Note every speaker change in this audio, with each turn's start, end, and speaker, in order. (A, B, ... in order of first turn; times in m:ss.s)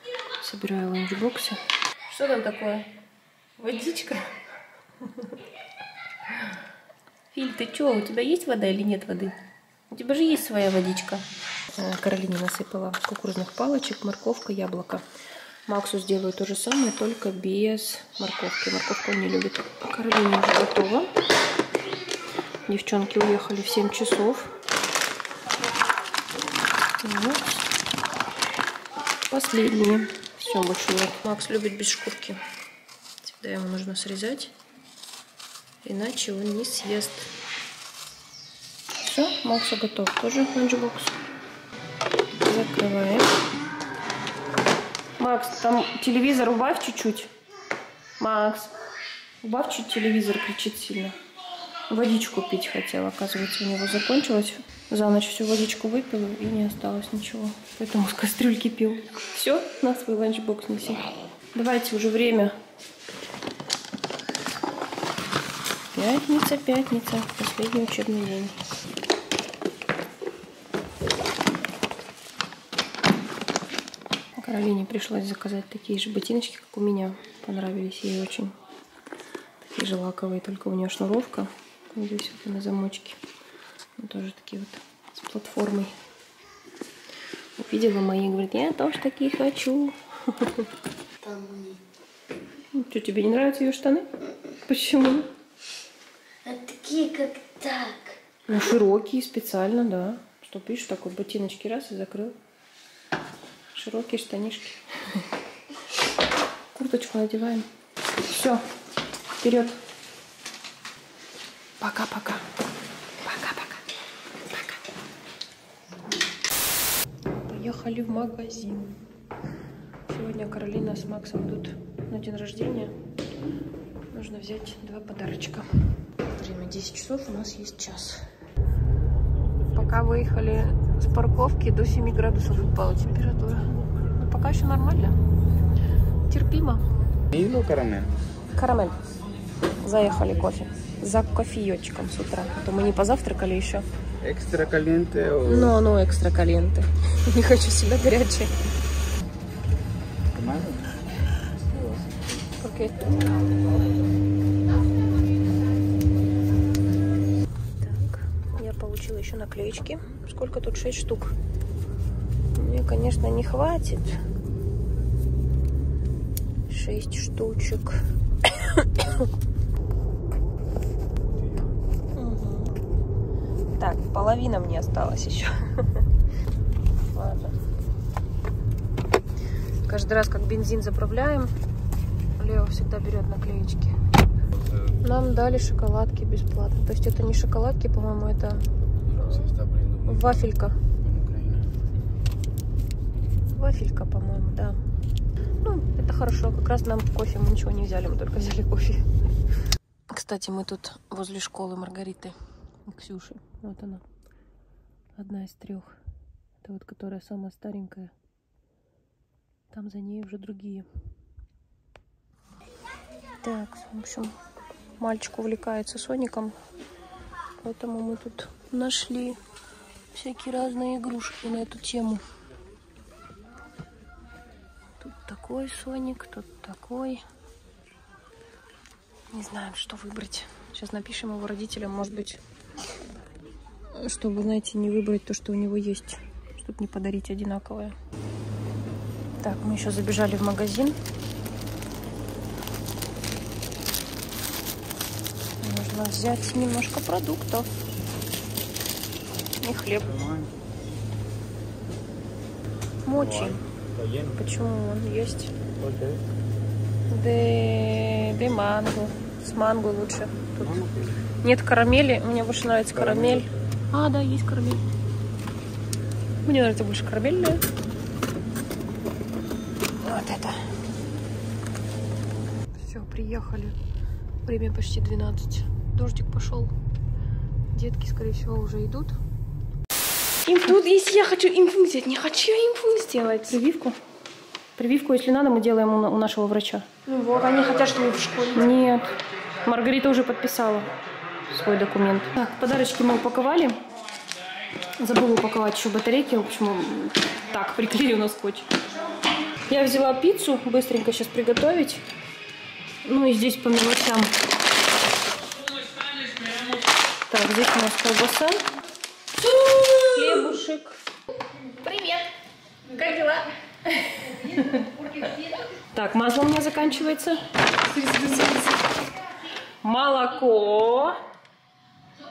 0:00.4-0:02.9 A
0:03.6-0:04.2 A
0:07.3-0:09.4 A
0:09.9-0:15.0 A
0:15.7-0:21.1 A
0:22.7-0:24.5 A
0:27.0-0:27.6 A
0:29.3-0:32.4 A
0:33.2-0:34.5 A
0:35.8-0:37.3 A
0:39.0-0:41.2 A
0:42.4-0:43.3 A
0:45.2-0:47.3 A
0:48.2-0:48.7 A
0:49.4-0:51.2 A
0:51.9-1:02.5 A
1:05.9-1:08.6 A
1:14.4-1:18.5 A
1:19.6-1:23.2 A
1:24.0-1:25.9 A
1:27.6-1:30.7 A
1:31.2-1:31.8 B
1:32.7-1:34.1 A
1:34.6-1:35.3 A
1:36.4-1:38.2 B
1:38.5-1:42.4 A
1:43.7-1:45.2 A
1:46.7-1:47.7 A
1:48.2-1:48.6 A
1:49.4-1:49.8 A
1:51.8-1:52.4 A
1:53.2-1:53.8 A
1:54.5-1:54.8 A
1:57.3-1:59.0 A
2:00.1-2:02.9 A
2:04.1-2:05.7 A
2:06.2-2:08.2 A
2:09.7-2:15.2 A
2:16.3-2:16.8 A
2:17.3-2:18.1 C
2:18.5-2:19.0 A
2:19.8-2:23.8 A
2:24.2-2:25.7 C
2:25.4-2:28.5 A
2:30.3-2:30.9 C
2:32.6-2:33.2 A
2:37.8-2:41.3 A
2:42.5-2:44.2 A
2:46.7-2:49.2 A
2:52.2-2:52.7 A
2:53.7-2:56.0 A
2:57.1-2:57.6 A
2:59.8-3:01.5 A
3:02.4-3:03.9 A
3:05.0-3:08.7 A
3:09.2-3:10.5 C
3:10.0-3:10.8 A
3:11.0-3:11.6 C
3:13.5-3:14.8 A
3:15.6-3:19.0 A
3:20.1-3:24.0 A
3:25.1-3:26.0 A
3:26.6-3:28.1 A
3:29.7-3:30.9 A
3:33.4-3:34.3 A
3:35.0-3:36.5 A
3:37.6-3:39.4 A
3:40.1-3:42.2 A
3:45.0-3:47.2 A
3:49.3-3:52.4 A
3:53.9-3:58.0 A
3:59.4-4:01.0 A
4:05.6-4:07.7 A
4:09.6-4:10.2 A
4:10.1-4:10.5 C
4:13.0-4:13.6 A
4:13.1-4:14.4 C
4:14.3-4:15.5 A
4:15.8-4:16.2 C
4:17.1-4:20.8 A
4:20.6-4:21.2 C
4:21.4-4:24.8 A
4:23.0-4:23.5 C
4:26.4-4:27.6 A
4:30.0-4:30.6 A
4:32.7-4:33.8 A
4:34.4-4:36.7 A
4:37.7-4:39.2 A
4:40.4-4:44.0 A
4:44.8-4:47.0 A
4:47.0-4:48.7 D
4:48.5-4:49.1 A
4:49.6-4:50.9 A
4:51.5-4:53.8 A
4:55.0-4:58.7 A
4:59.7-5:02.0 A
5:03.0-5:04.4 A
5:07.3-5:08.6 A
5:09.6-5:09.9 D
5:10.0-5:11.0 A
5:11.7-5:12.3 A
5:12.9-5:13.4 A
5:14.1-5:14.9 A
5:15.9-5:17.4 A
5:17.8-5:18.8 D
5:19.8-5:21.2 A